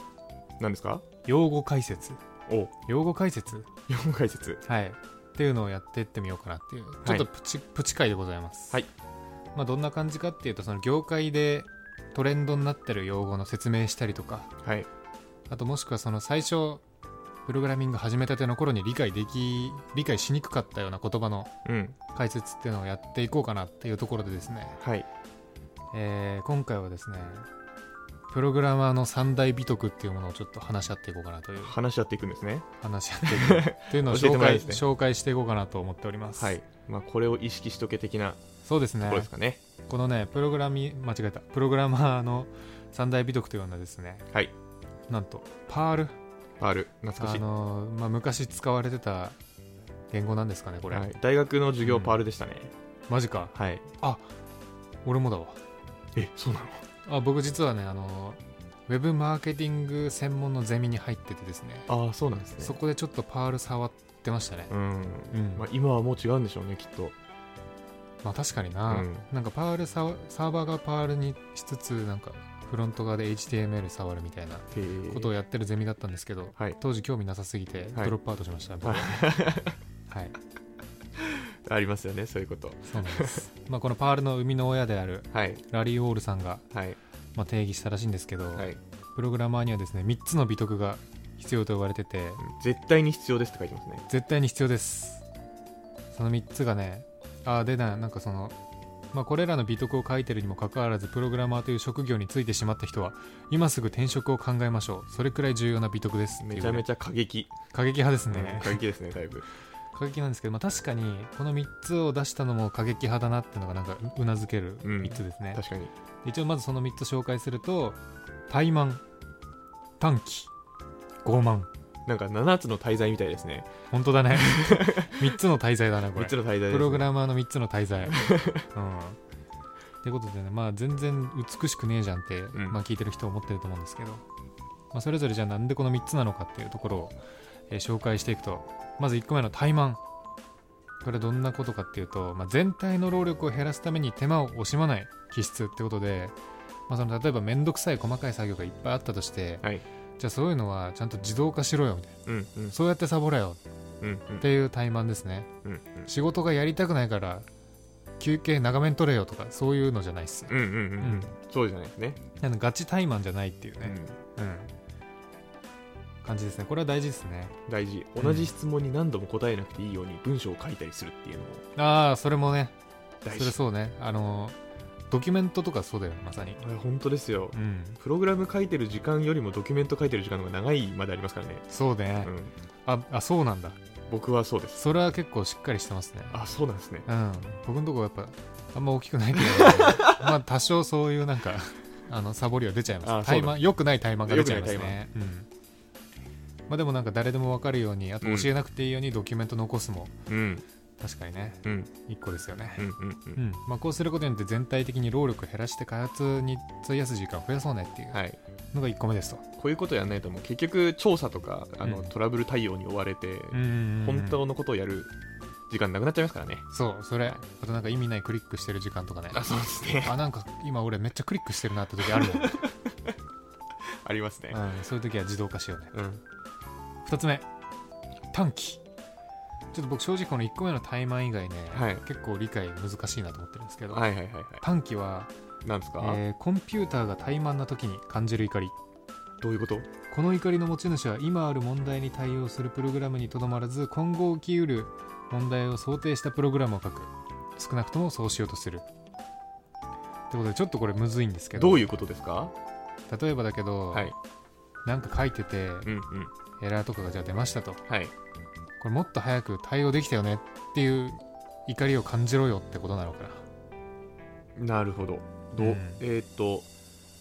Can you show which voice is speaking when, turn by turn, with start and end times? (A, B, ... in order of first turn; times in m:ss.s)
0:00.6-0:01.0 A
0:01.3-0:02.2 B
0:02.5-0:02.7 A
0:02.9-0:03.7 B
0:03.9-0:04.6 A
0:04.6-0:08.8 B
0:09.5-0:14.5 B
0:14.6-0:14.9 A
0:15.5-0:16.8 B
0:17.5-0:21.5 B
0:21.6-0:22.0 A
0:22.1-0:24.8 B
0:24.8-0:25.1 A
0:25.9-0:27.5 B
0:28.3-0:31.8 B
0:31.6-0:32.7 A
0:32.8-0:36.6 B
0:33.2-0:34.8 A
0:36.4-0:38.4 A
0:38.6-0:39.3 B
0:39.0-0:39.6 A
0:39.9-0:44.3 B
0:45.1-0:46.1 B
0:46.6-0:47.4 A
0:47.2-0:49.4 B
0:50.1-0:51.1 B
0:50.9-0:52.7 A
0:51.8-0:52.2 B
0:53.1-0:54.3 B
0:53.6-0:53.9 A
0:55.0-0:55.6 B
0:56.2-0:56.8 A
0:57.1-1:01.9 B
1:01.9-1:02.8 A
1:02.6-1:04.7 B
1:04.7-1:07.2 A
1:05.3-1:05.7 B
1:08.2-1:19.4 B
1:08.9-1:09.3 A
1:14.7-1:15.3 A
1:18.8-1:19.8 A
1:20.1-1:20.4 B
1:21.3-1:23.5 A
1:22.9-1:26.6 B
1:25.3-1:25.6 A
1:26.7-1:27.0 A
1:27.4-1:32.4 B
1:32.4-1:34.0 A
1:34.1-1:35.2 B
1:36.1-1:38.6 B
1:39.1-1:46.8 B
1:46.4-1:47.5 A
1:47.7-1:48.8 B
1:48.3-1:49.5 A
1:49.9-1:55.6 B
1:54.8-1:55.9 A
1:56.2-1:59.0 B
2:00.0-2:00.5 B
2:01.2-2:01.7 B
2:02.1-2:03.7 A
2:03.9-2:08.2 B
2:04.3-2:05.2 A
2:06.2-2:07.1 A
2:08.1-2:08.6 A
2:08.7-2:09.2 B
2:10.0-2:14.2 B
2:14.9-2:17.2 B
2:17.7-2:20.0 B
2:21.0-2:26.4 B
2:26.9-2:32.2 B
2:32.3-2:32.8 A
2:32.7-2:33.6 B
2:34.0-2:34.5 A
2:34.4-2:35.5 B
2:35.6-2:36.1 A
2:36.1-2:37.5 B
2:38.2-2:41.3 B
2:40.5-2:42.2 A
2:42.4-2:44.7 B
2:43.8-2:44.2 A
2:46.2-2:47.6 B
2:47.7-2:51.6 A
2:48.2-2:48.5 B
2:51.8-2:52.7 B
2:53.2-2:53.6 A
2:53.3-2:54.6 B
2:55.1-2:56.6 B
2:56.6-3:01.6 A
2:57.5-2:58.0 B
3:01.7-3:02.3 B
3:02.2-3:02.5 A
3:02.8-3:03.8 B
3:04.1-3:04.8 A
3:04.8-3:06.4 B
3:06.3-3:07.1 A
3:07.1-3:15.5 B
3:09.4-3:10.3 A
3:13.0-3:13.6 A
3:14.2-3:15.0 A
3:16.7-3:20.2 B
3:18.2-3:18.5 A
3:20.3-3:20.6 A
3:21.0-3:29.4 B
3:21.6-3:21.9 A
3:22.8-3:23.4 A
3:28.1-3:28.4 A
3:29.6-3:35.1 A
3:31.8-3:32.1 B
3:33.5-3:34.4 B
3:35.7-3:36.7 A
3:36.7-3:42.6 B
3:39.3-3:40.2 A
3:42.0-3:42.7 A
3:44.0-3:44.6 A
3:44.5-3:45.9 B
3:45.9-3:46.2 A
3:47.0-3:47.5 B
3:48.3-3:48.8 B
3:49.7-3:54.1 B
3:51.7-3:52.0 A
3:53.9-3:54.6 A
3:54.6-3:55.3 B
3:55.6-3:56.2 A
3:56.0-3:58.8 B
3:59.4-3:59.9 A
4:00.1-4:08.9 B
4:10.3-4:11.9 B
4:11.6-4:12.5 A
4:13.1-4:14.1 B
4:14.8-4:15.9 B
4:15.9-4:16.3 A
4:16.6-4:17.8 B
4:17.9-4:18.1 A
4:18.8-4:23.4 B
4:24.6-4:26.7 A
4:25.6-4:26.0 B